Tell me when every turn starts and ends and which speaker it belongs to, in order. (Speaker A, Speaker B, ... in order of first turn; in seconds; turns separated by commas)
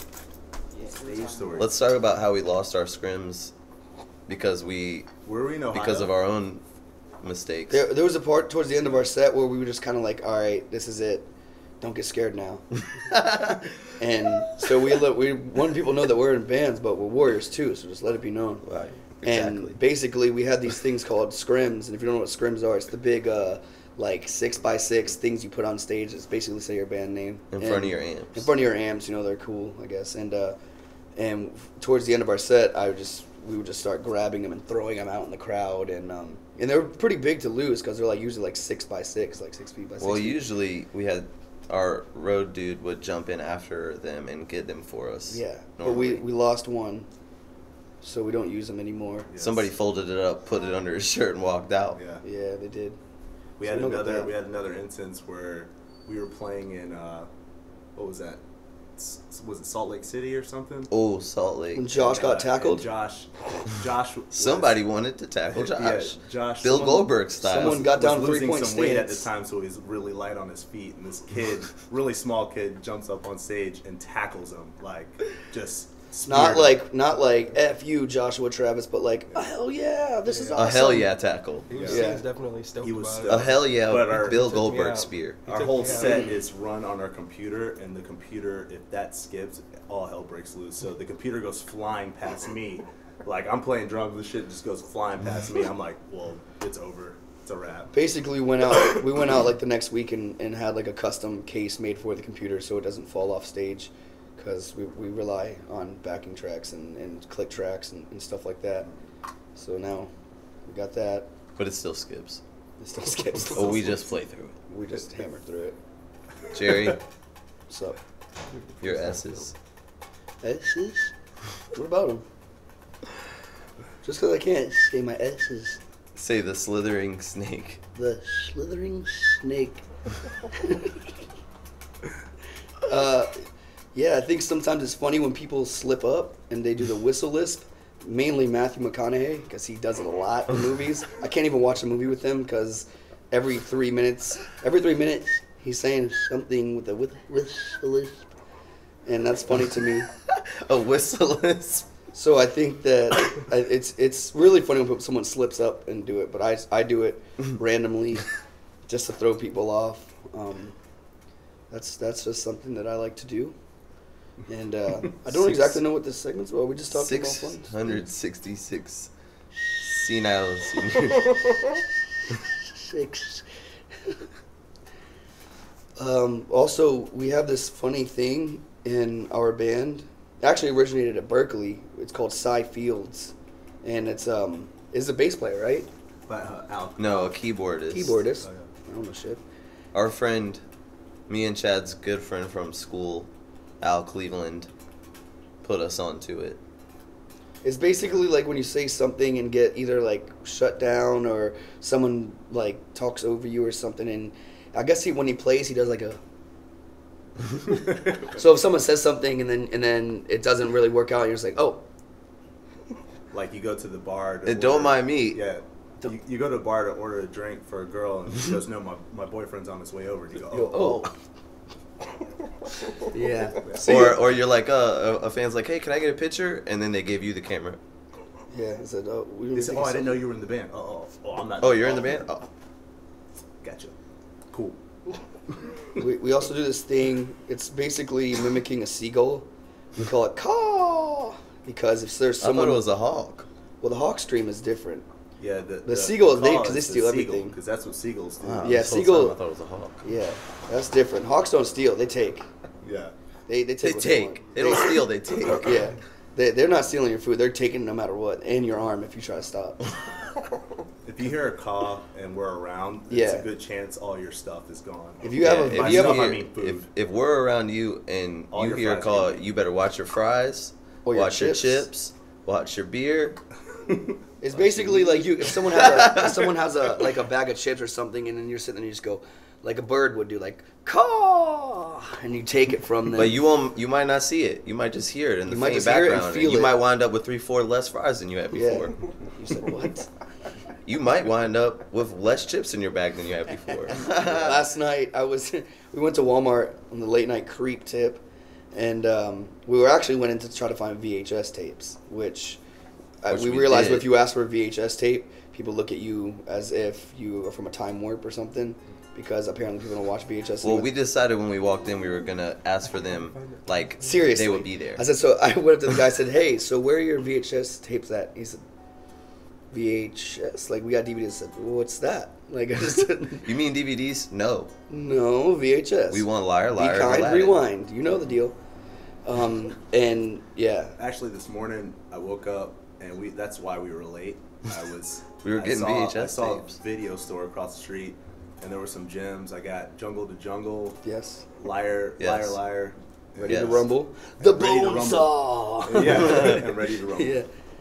Speaker A: 0.8-1.6, Speaker B: 0.9-1.7, Speaker C: 1.6-3.5, Speaker C: 4.3-5.1, Speaker B: 5.3-6.1, Speaker C: 5.7-6.6, Speaker C: 7.2-7.8, Speaker D: 7.7-11.3, Speaker D: 11.8-12.7, Speaker C: 13.1-13.8, Speaker D: 14.0-18.7, Speaker C: 18.6-19.8, Speaker D: 19.2-30.6, Speaker C: 27.5-28.5, Speaker D: 31.2-40.4, Speaker C: 40.0-46.2, Speaker D: 45.3-47.1, Speaker D: 48.0-49.3, Speaker B: 49.3-49.7, Speaker C: 49.4-52.0, Speaker B: 52.0-52.2, Speaker D: 52.2-53.0, Speaker B: 53.6-57.3, Speaker D: 53.6-54.3, Speaker B: 58.0-58.4, Speaker B: 59.0-60.9, Speaker C: 60.9-61.9, Speaker D: 61.7-62.9, Speaker B: 61.9-64.8, Speaker C: 64.3-67.9, Speaker B: 65.5-76.8, Speaker D: 67.4-69.3, Speaker D: 76.2-81.1, Speaker A: 80.3-80.6, Speaker C: 80.6-81.7, Speaker A: 81.7-86.4, Speaker B: 81.7-82.1, Speaker D: 81.9-82.2, Speaker B: 82.8-84.5, Speaker C: 83.3-85.4, Speaker B: 85.5-97.9, Speaker D: 97.9-108.9, Speaker D: 109.5-110.1, Speaker D: 110.7-111.3, Speaker C: 111.6-112.4, Speaker D: 112.8-114.1, Speaker C: 113.5-114.5, Speaker D: 114.7-115.8, Speaker C: 116.5-117.0, Speaker D: 117.7-118.0, Speaker A: 118.5-119.4, Speaker C: 118.8-119.5, Speaker D: 120.4-121.1, Speaker D: 121.7-122.2, Speaker D: 124.0-125.8, Speaker C: 126.2-127.8, Speaker D: 128.0-129.8, Speaker D: 130.6-131.0, Speaker D: 132.8-133.3, Speaker D: 133.9-148.3, Speaker D: 149.1-150.1, Speaker C: 150.3-151.9, Speaker D: 152.1-158.3, Speaker D: 158.9-160.8, Speaker D: 161.7-163.6, Speaker D: 164.5-168.1, Speaker C: 165.3-165.8, Speaker C: 166.9-169.1, Speaker C: 169.8-171.6, Speaker D: 172.6-173.5, Speaker D: 176.0-185.9, Speaker B: 186.3-187.1, Speaker C: 187.0-188.2, Speaker D: 187.9-189.4, Speaker C: 189.9-190.6, Speaker C: 191.3-193.3, Speaker C: 193.8-194.7, Speaker C: 195.6-196.6, Speaker D: 197.6-206.2, Speaker D: 208.2-211.8, Speaker B: 213.3-220.9, Speaker C: 214.5-215.4, Speaker D: 220.5-221.1, Speaker C: 220.7-221.1, Speaker D: 223.0-224.2, Speaker B: 223.7-224.1, Speaker C: 223.8-227.8, Speaker D: 228.5-230.2, Speaker B: 229.5-232.2, Speaker C: 231.6-232.5, Speaker B: 233.6-233.9, Speaker B: 234.5-234.8, Speaker D: 236.0-242.9, Speaker C: 242.4-243.5, Speaker D: 243.8-245.1, Speaker B: 245.4-248.8, Speaker D: 245.8-247.6, Speaker C: 248.4-250.0, Speaker D: 248.6-249.4, Speaker D: 250.0-252.5, Speaker B: 252.8-253.1, Speaker D: 253.5-259.9, Speaker C: 253.8-255.9, Speaker B: 261.1-266.9, Speaker D: 263.1-263.5, Speaker D: 265.2-266.3, Speaker C: 265.4-273.4, Speaker B: 268.5-269.4, Speaker D: 271.1-271.9, Speaker B: 273.9-274.1, Speaker D: 274.4-283.4, Speaker C: 274.6-276.5, Speaker C: 283.1-288.9, Speaker D: 285.5-286.8, Speaker D: 288.5-290.1, Speaker C: 290.9-294.7, Speaker D: 294.1-298.2, Speaker D: 298.7-302.6, Speaker D: 303.2-310.9, Speaker C: 303.3-304.1, Speaker C: 310.6-315.0, Speaker D: 314.0-318.6, Speaker D: 319.7-323.5, Speaker C: 323.4-324.7, Speaker D: 324.9-328.6, Speaker C: 326.1-327.6, Speaker D: 329.2-331.0, Speaker B: 331.0-341.0, Speaker C: 335.4-336.8, Speaker D: 341.0-341.4, Speaker B: 341.6-343.8, Speaker C: 342.2-342.6, Speaker D: 343.4-347.5, Speaker C: 343.5-343.9, Speaker B: 344.4-347.4